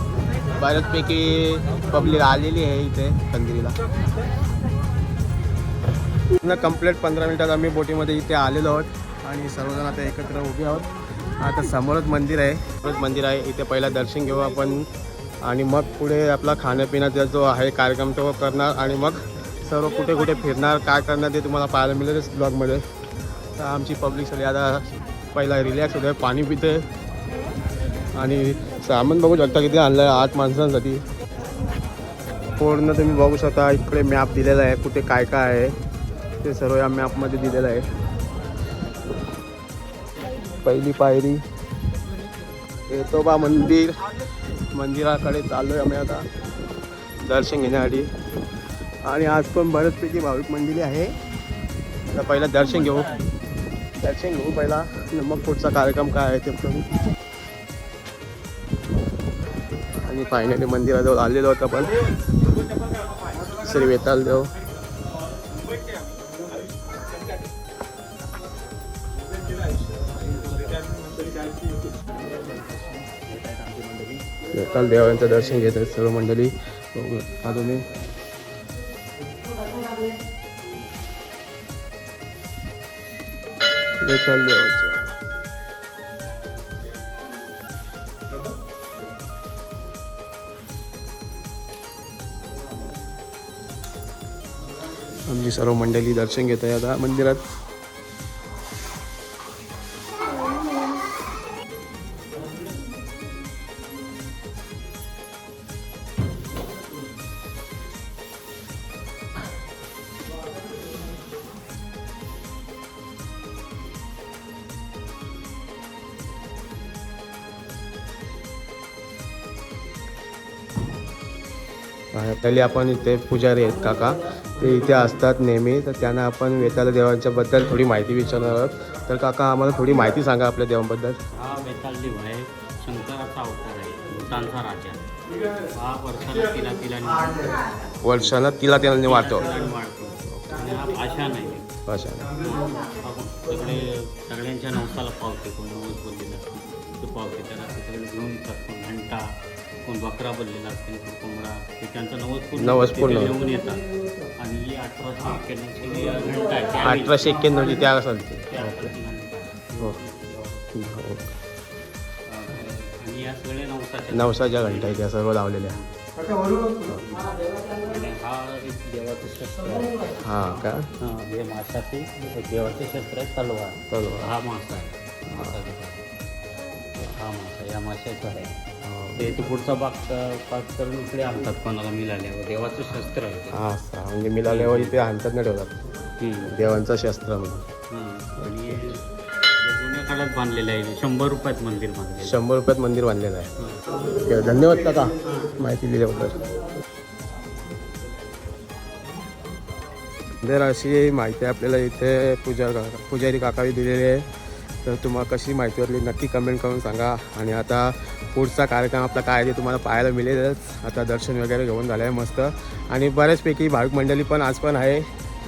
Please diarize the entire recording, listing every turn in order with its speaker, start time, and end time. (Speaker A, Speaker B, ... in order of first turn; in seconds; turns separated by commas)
Speaker A: 0.5-3.8, Speaker A: 6.4-14.9, Speaker A: 15.4-22.8, Speaker A: 23.6-26.9, Speaker A: 28.2-31.0, Speaker A: 32.6-35.8, Speaker A: 36.4-37.9, Speaker A: 40.6-41.4, Speaker A: 42.9-44.0, Speaker A: 44.7-46.2, Speaker A: 47.2-48.1, Speaker A: 49.0-51.2, Speaker A: 52.1-53.1, Speaker A: 54.0-56.9, Speaker A: 60.0-62.0, Speaker A: 63.5-64.5, Speaker B: 73.4-74.2, Speaker A: 74.5-77.9, Speaker A: 84.0-85.1, Speaker A: 95.3-97.5, Speaker A: 122.1-131.2, Speaker B: 131.3-135.0, Speaker B: 135.7-141.7, Speaker A: 138.0-139.5, Speaker A: 141.9-142.3, Speaker B: 142.4-149.2, Speaker B: 149.8-153.8, Speaker A: 152.6-153.3, Speaker B: 154.4-157.9, Speaker A: 156.8-158.9, Speaker B: 158.5-160.8, Speaker A: 160.7-161.3, Speaker B: 162.3-165.1, Speaker A: 164.1-165.8, Speaker B: 166.7-176.0, Speaker A: 170.2-170.9, Speaker A: 173.9-174.3, Speaker A: 175.3-175.6, Speaker B: 177.1-178.6, Speaker A: 178.8-179.4, Speaker B: 179.2-183.6, Speaker A: 183.5-185.8, Speaker B: 184.5-185.0, Speaker B: 186.2-186.6, Speaker A: 186.4-187.7, Speaker B: 187.9-189.1, Speaker B: 189.6-192.4, Speaker A: 192.2-193.5, Speaker A: 194.2-196.4, Speaker A: 200.4-204.3, Speaker A: 204.8-215.1